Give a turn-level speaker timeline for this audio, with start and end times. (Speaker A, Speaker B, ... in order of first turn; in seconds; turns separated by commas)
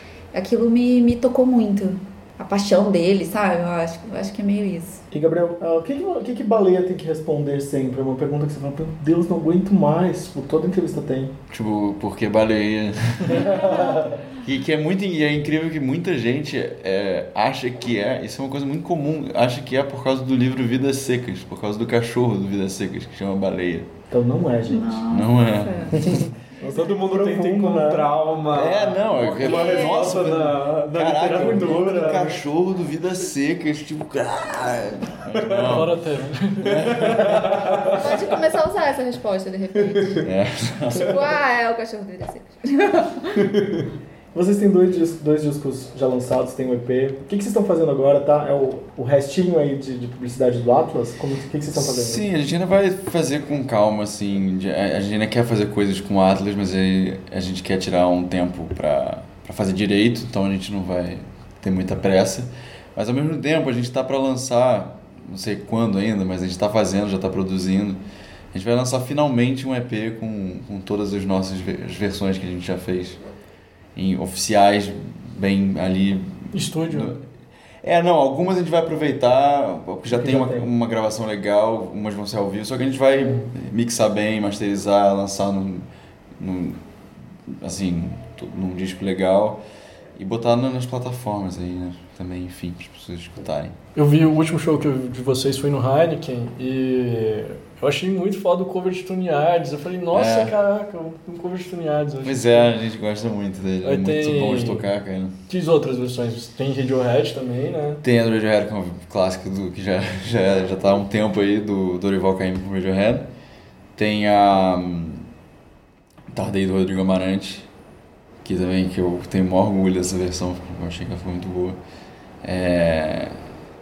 Speaker A: 0.3-5.0, Speaker B: 5.1-11.3, Speaker C: 11.5-13.6, Speaker B: 13.3-14.2, Speaker A: 13.4-14.1, Speaker C: 14.3-23.9, Speaker B: 24.1-25.0, Speaker A: 24.7-26.3, Speaker C: 25.1-26.1, Speaker B: 26.0-28.1, Speaker D: 26.6-32.4, Speaker C: 28.5-36.0, Speaker A: 29.2-30.1, Speaker D: 35.3-35.8, Speaker E: 35.6-37.2, Speaker C: 36.6-37.9, Speaker D: 36.8-38.0, Speaker A: 37.8-40.3, Speaker C: 40.2-41.2, Speaker A: 40.9-43.5, Speaker D: 43.4-43.9, Speaker B: 44.3-52.2, Speaker C: 51.7-68.0, Speaker C: 68.5-73.2, Speaker C: 74.0-77.2, Speaker E: 76.5-77.1, Speaker C: 77.8-85.8, Speaker B: 80.1-80.7, Speaker C: 86.4-86.8, Speaker C: 87.5-89.6, Speaker C: 90.2-93.8, Speaker E: 93.9-102.7, Speaker C: 100.1-100.5, Speaker C: 102.2-105.3, Speaker E: 103.8-104.8, Speaker E: 105.5-108.0, Speaker C: 108.0-113.3, Speaker C: 114.0-115.2, Speaker C: 116.3-117.7, Speaker C: 118.4-121.8, Speaker C: 122.4-123.4